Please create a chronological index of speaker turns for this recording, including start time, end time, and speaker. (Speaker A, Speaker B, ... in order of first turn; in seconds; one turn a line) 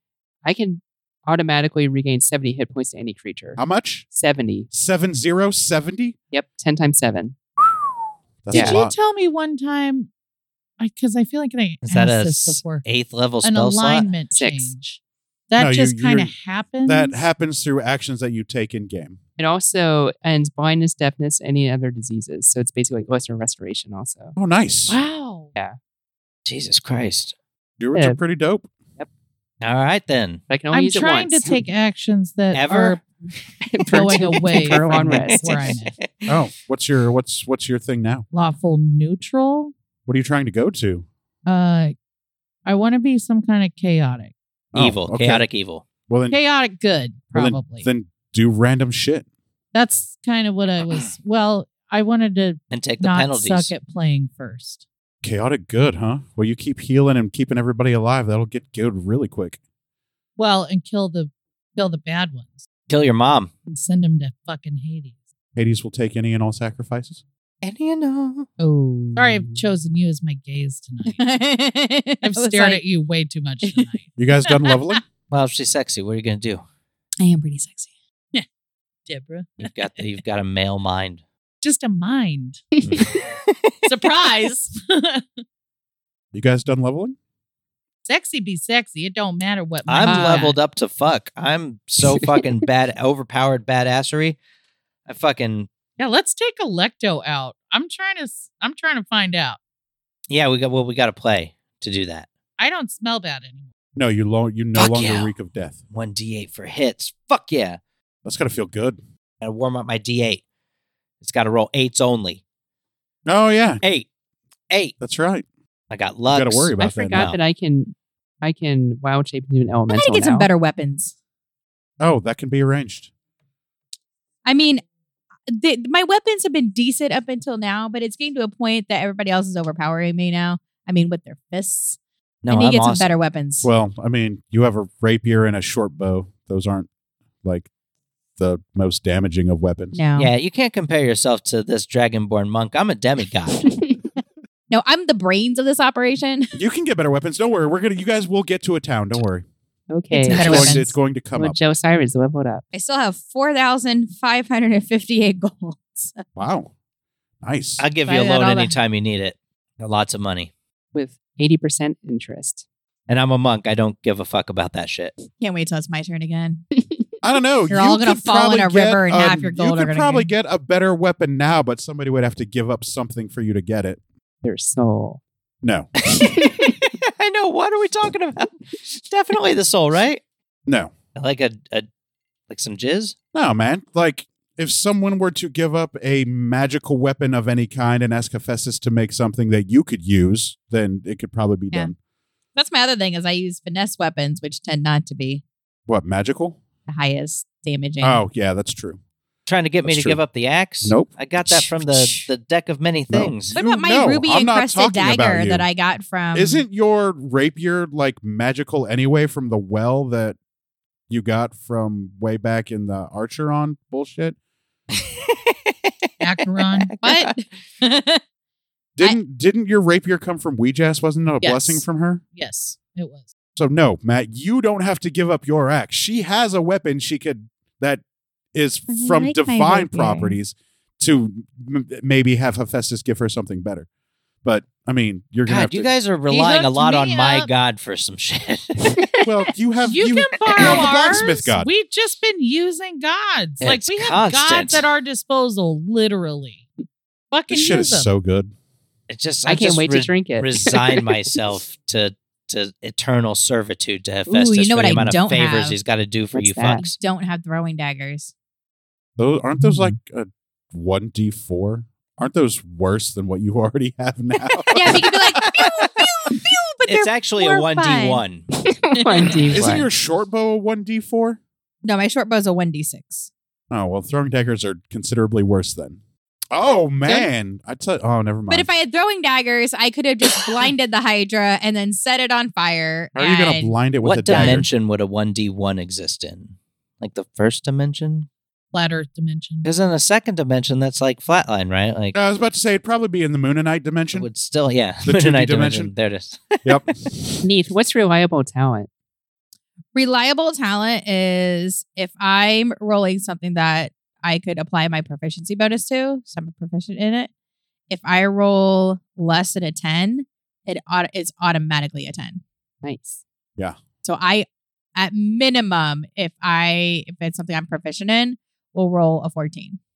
Speaker A: 0.4-3.6
Speaker B: 3.6-4.1
Speaker A: 4.1-4.7
Speaker B: 4.7-6.2
Speaker A: 6.3-7.4
Speaker B: 8.4-8.9
Speaker A: 8.5-8.8
Speaker C: 8.5-10.1
Speaker C: 10.8-12.9
Speaker D: 11.8-14.1
Speaker C: 13.4-17.2
Speaker A: 14.3-14.7
Speaker B: 15.6-16.3
Speaker B: 16.9-19.2
Speaker A: 19.4-24.4
Speaker B: 24.4-25.0
Speaker C: 24.9-25.5
Speaker D: 26.4-27.3
Speaker B: 27.8-28.7
Speaker A: 27.9-28.2
Speaker D: 29.6-30.4
Speaker A: 30.5-31.6
Speaker C: 30.7-33.0
Speaker D: 32.5-33.0
Speaker A: 33.7-35.8
Speaker C: 33.9-36.0
Speaker D: 34.2-36.3
Speaker B: 36.3-38.2
Speaker C: 38.3-39.7
Speaker B: 40.1-41.1
Speaker C: 41.5-42.0
Speaker C: 42.7-44.4
Speaker B: 44.7-45.5
Speaker D: 44.8-45.9
Speaker B: 46.1-46.4
Speaker C: 46.3-47.9
Speaker B: 47.4-49.3
Speaker C: 49.7-54.9
Speaker D: 50.8-51.1
Speaker D: 52.7-53.7
Speaker B: 55.2-59.6
Speaker C: 60.4-62.7
Speaker D: 62.9-63.5
Speaker C: 63.7-65.2
Speaker B: 65.6-67.2
Speaker D: 67.6-68.5
Speaker C: 68.6-71.2
Speaker E: 71.1-72.8
Speaker C: 72.2-74.8
Speaker B: 74.2-75.0
Speaker D: 75.3-76.6
Speaker E: 77.2-77.9
Speaker C: 79.1-79.9
Speaker D: 79.6-81.2
Speaker C: 81.6-82.7
Speaker D: 82.8-83.7
Speaker C: 83.8-85.4
Speaker B: 86.3-87.2
Speaker C: 88.0-90.5
Speaker D: 89.9-94.4
Speaker A: 90.0-90.6
Speaker D: 95.1-95.7
Speaker C: 96.0-99.6
Speaker D: 100.3-102.3
Speaker C: 102.6-103.7
Speaker B: 104.0-105.8
Speaker D: 104.8-105.3
Speaker D: 105.9-107.8
Speaker B: 108.2-109.0
Speaker D: 109.4-110.4
Speaker D: 111.2-112.4
Speaker B: 113.3-113.8
Speaker D: 113.8-114.1
Speaker B: 115.0-115.5
Speaker D: 115.9-117.4
Speaker B: 116.3-117.3
Speaker A: 116.8-120.5
Speaker E: 119.9-121.1
Speaker B: 122.0-123.1
Speaker E: 124.5-124.8
Speaker E: 125.5-132.0
Speaker D: 132.4-133.1
Speaker E: 132.5-133.7
Speaker B: 133.6-136.9
Speaker B: 137.4-137.7
Speaker B: 138.4-140.0
Speaker E: 139.9-140.3
Speaker D: 140.2-143.7
Speaker E: 144.7-146.6
Speaker B: 146.6-149.4
Speaker A: 149.9-152.6
Speaker E: 150.1-150.9
Speaker B: 150.3-151.6
Speaker E: 152.7-156.2
Speaker B: 156.4-156.7
Speaker B: 157.4-157.8
Speaker D: 157.8-160.5
Speaker E: 158.0-158.8
Speaker A: 160.9-162.7
Speaker D: 163.1-165.2
Speaker E: 165.3-166.7
Speaker B: 167.2-174.0
Speaker E: 167.7-170.3
Speaker A: 174.4-175.2
Speaker B: 175.6-175.9
Speaker D: 176.0-180.2
Speaker B: 180.7-180.9
Speaker D: 181.2-181.9
Speaker D: 182.5-183.2
Speaker B: 183.3-192.0
Speaker E: 192.6-195.4
Speaker B: 195.9-196.6
Speaker E: 196.9-198.2
Speaker B: 198.0-199.0
Speaker D: 199.5-203.5
Speaker B: 199.8-200.2
Speaker B: 200.8-201.1
Speaker B: 203.1-205.7
Speaker E: 203.5-206.6
Speaker B: 206.3-210.4
Speaker B: 211.1-214.4
Speaker D: 214.9-215.9
Speaker C: 216.2-216.9
Speaker D: 216.7-217.3
Speaker E: 217.0-218.2
Speaker B: 219.0-222.2
Speaker C: 221.4-223.3
Speaker B: 223.6-228.0
Speaker B: 228.5-233.9
Speaker E: 228.9-230.4
Speaker B: 234.4-235.9
Speaker D: 235.5-239.2
Speaker C: 236.3-237.5
Speaker B: 239.2-241.7
Speaker C: 239.9-246.7
Speaker D: 243.6-244.9
Speaker C: 247.3-248.1
Speaker B: 247.5-248.5
Speaker D: 249.1-257.0
Speaker A: 249.4-251.3
Speaker E: 254.3-255.8
Speaker A: 256.3-256.9
Speaker E: 256.9-258.3
Speaker B: 259.2-265.4
Speaker E: 264.7-268.2
Speaker D: 266.9-268.5
Speaker A: 268.8-269.9
Speaker E: 269.0-269.2
Speaker B: 269.5-271.4
Speaker E: 271.8-273.3
Speaker B: 273.7-276.0
Speaker B: 276.5-278.7
Speaker E: 278.5-283.8
Speaker B: 283.1-284.7
Speaker D: 284.0-288.3
Speaker E: 284.3-284.6
Speaker C: 288.7-289.7
Speaker D: 289.6-292.1
Speaker B: 292.1-294.3
Speaker D: 294.1-296.8
Speaker B: 295.1-295.9
Speaker B: 296.6-297.4
Speaker A: 297.4-298.9
Speaker E: 299.9-307.3
Speaker E: 307.9-312.4
Speaker A: 312.8-313.2
Speaker E: 314.0-314.5
Speaker E: 315.0-319.8